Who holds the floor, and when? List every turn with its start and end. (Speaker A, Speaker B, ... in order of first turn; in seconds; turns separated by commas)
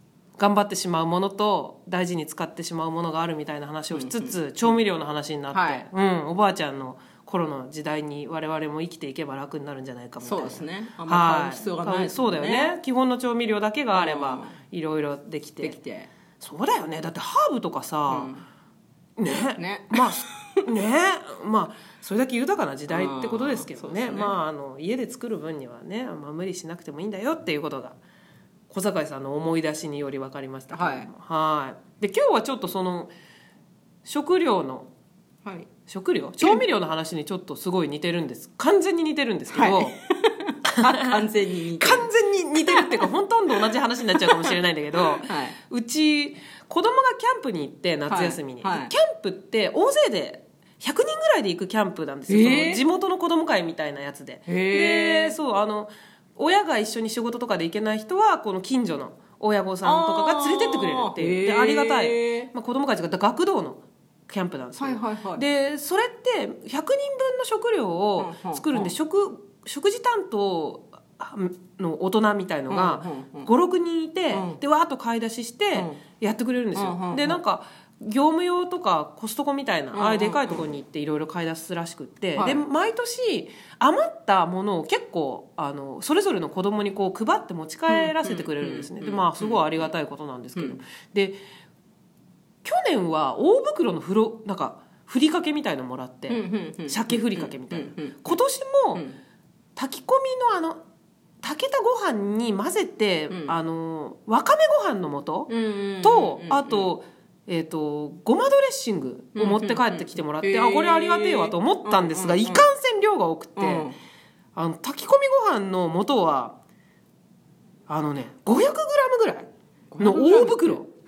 Speaker A: 0.4-15.8, Speaker B: 3.9-4.4, Speaker B: 5.5-5.9, Speaker B: 10.2-12.7, Speaker B: 13.9-14.6, Speaker B: 15.6-16.1, Speaker A: 16.4-18.3, Speaker B: 18.1-18.4, Speaker A: 19.2-28.0, Speaker B: 19.6-20.4, Speaker B: 22.9-24.4, Speaker A: 28.7-33.1, Speaker B: 30.7-31.1, Speaker A: 34.0-34.9, Speaker B: 35.4-35.7, Speaker A: 35.9-40.0, Speaker B: 39.5-42.1, Speaker A: 40.8-41.1, Speaker A: 41.8-91.4, Speaker B: 42.7-43.1, Speaker B: 43.6-44.6, Speaker B: 45.1-45.5, Speaker B: 48.1-48.9, Speaker B: 52.3-52.8, Speaker B: 54.5-55.4, Speaker B: 59.8-62.5, Speaker B: 64.8-65.4, Speaker B: 68.2-68.9, Speaker B: 72.7-73.5, Speaker B: 74.3-74.6, Speaker B: 75.7-76.0, Speaker B: 76.7-77.4, Speaker B: 79.9-80.7, Speaker B: 82.4-82.7, Speaker B: 87.9-89.8, Speaker A: 92.6-99.1, Speaker B: 96.3-98.3, Speaker A: 99.8-100.8, Speaker A: 101.4-105.5, Speaker B: 103.3-103.6, Speaker B: 105.5-106.9, Speaker A: 106.0-113.9, Speaker B: 109.3-112.7, Speaker B: 113.6-114.0, Speaker A: 114.5-116.5, Speaker A: 117.9-120.9, Speaker B: 119.9-120.8